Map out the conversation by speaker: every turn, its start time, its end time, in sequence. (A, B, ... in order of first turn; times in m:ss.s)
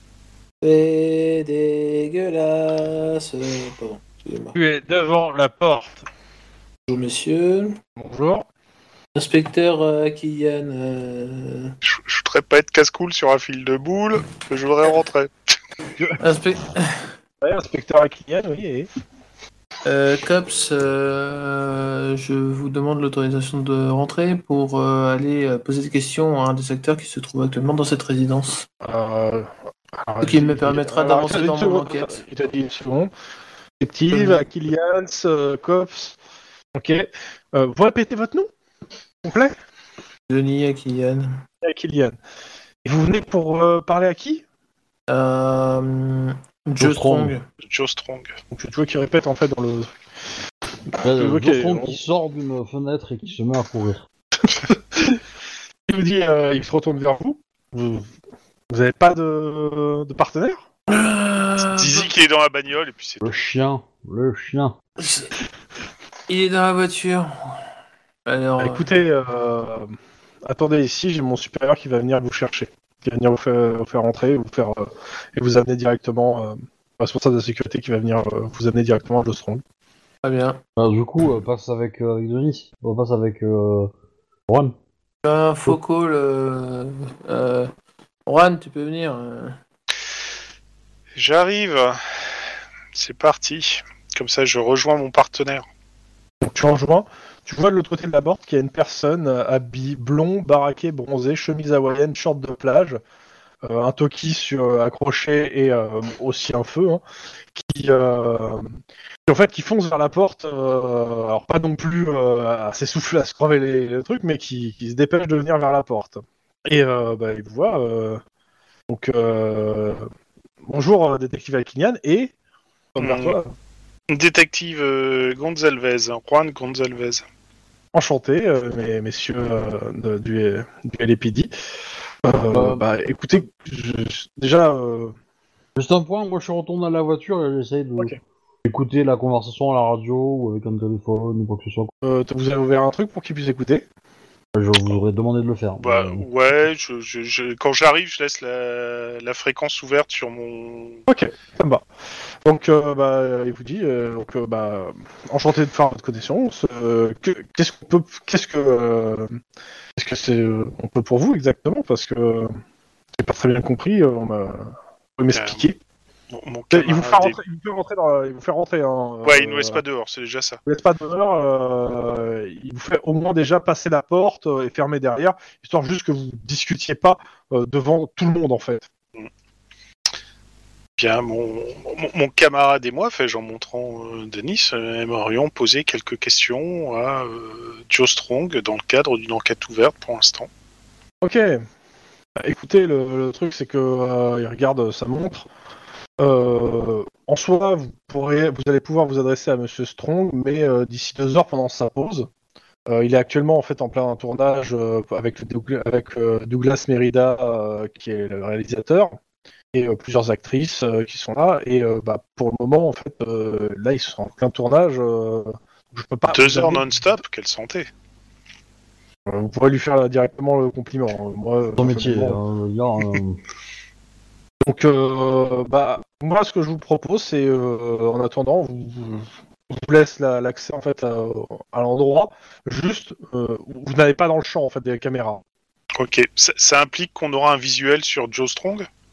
0:00.6-0:04.6 A
0:04.6-0:06.0 B
0:06.9-0:07.8 A
0:08.0-0:08.5 B
0:09.2-0:11.7 A
0:11.8-0:15.3 C
0:16.2-0:17.1 A
0:17.4-0:18.9 B
0:19.8-0:28.7 A
0:28.8-0:33.1 B
0:30.2-0:32.2 A
0:33.8-0:36.2 B
0:34.1-0:34.4 A
0:36.8-0:38.5 B
0:39.2-0:39.6 B
0:40.3-0:41.4 A
0:41.6-0:42.2 B
0:42.8-0:44.4 B
0:45.1-0:47.5 A
0:46.8-0:47.4 D
0:47.6-0:48.4 C
0:48.5-0:49.9 B
0:50.9-0:52.0 B
0:51.0-0:54.1 D
0:54.7-0:55.2 B
0:55.9-0:58.1 B
0:58.7-1:00.6 B
1:00.9-1:02.1 A
1:01.7-1:03.3 C
1:03.2-1:04.8 D
1:05.0-1:05.3 A
1:06.3-1:07.6 A
1:08.3-1:08.9 A
1:08.6-1:09.9 B
1:10.5-1:19.6 B
1:20.2-1:20.6 A
1:20.8-1:23.9 D
1:24.5-1:24.8 D
1:25.2-1:27.7 A
1:28.3-1:29.6 A
1:31.2-1:32.4 C
1:32.9-1:35.6 C
1:36.4-1:43.0 B
1:43.6-1:47.0 B
1:47.6-1:48.7 B
1:49.3-1:58.2 B
1:58.9-2:00.1 B
2:00.7-2:02.3 B
2:03.0-2:03.5 B
2:03.0-2:03.4 C
2:04.1-2:07.2 C
2:07.9-2:11.5 B
2:12.2-2:15.1 B
2:12.5-2:12.8 D
2:15.8-2:18.1 D
2:18.6-2:21.9 D
2:22.0-2:23.9 B
2:24.6-2:26.2 D
2:25.8-2:31.0 C
2:31.1-2:31.8 B
2:32.4-2:39.4 B
2:40.0-2:42.5 B
2:43.2-2:45.8 B
2:45.3-2:45.6 C
2:46.3-2:47.4 C
2:46.7-2:49.8 B
2:49.2-2:50.6 C
2:50.7-2:58.9 B
3:01.0-3:10.5 C
3:11.2-3:11.6 B
3:12.4-3:15.5 B
3:16.2-3:22.3 B
3:22.9-3:29.2 B
3:29.7-3:36.9 B
3:36.3-3:37.9 C
3:39.3-3:42.4 B
3:41.8-3:43.4 D
3:44.6-3:55.4 B
3:56.0-3:58.9 C